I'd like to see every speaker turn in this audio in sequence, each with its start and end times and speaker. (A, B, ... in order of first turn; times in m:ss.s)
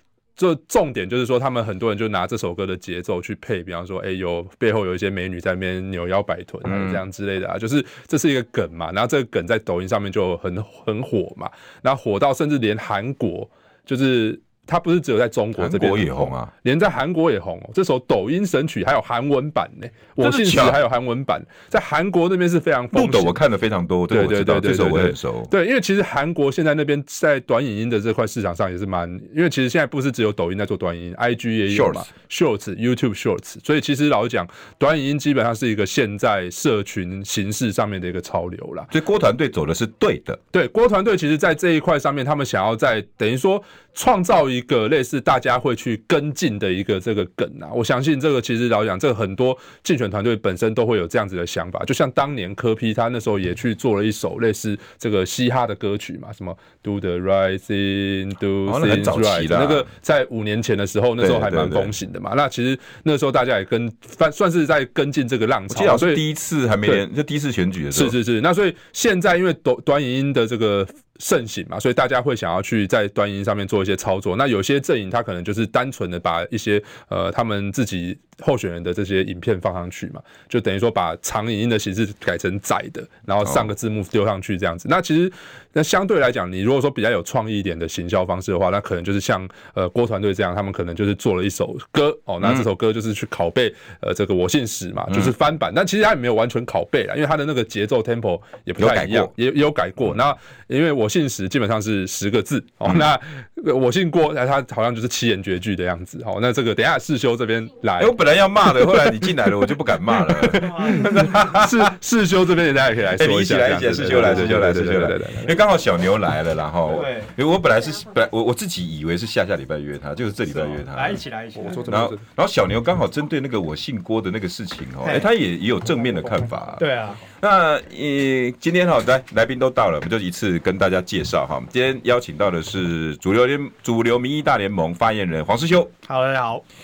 0:00.4-0:23.4 A
0:06.6-0:07.0 B
0:15.6-0:16.5 B
0:20.2-0:20.8 B
0:22.9-0:25.5 B
0:24.1-0:38.9 A
0:31.7-0:32.1 B
0:38.9-0:40.4 B
0:40.5-1:06.2 A
0:58.6-0:59.9 B
1:01.2-1:01.9 B
1:05.7-1:08.2 B
1:07.9-1:48.1 A
1:23.4-1:23.7 B
1:32.4-1:32.7 B
1:35.1-1:35.3 B
1:38.8-1:39.3 B
1:48.0-1:51.9 B
1:50.2-1:55.5 A
1:50.6-1:51.1 C
1:53.2-2:01.2 B
1:56.9-1:57.3 C
2:00.5-2:01.8 C
2:01.6-2:02.2 A
2:01.9-2:15.9 B
2:06.8-2:07.2 C
2:16.0-2:16.6 C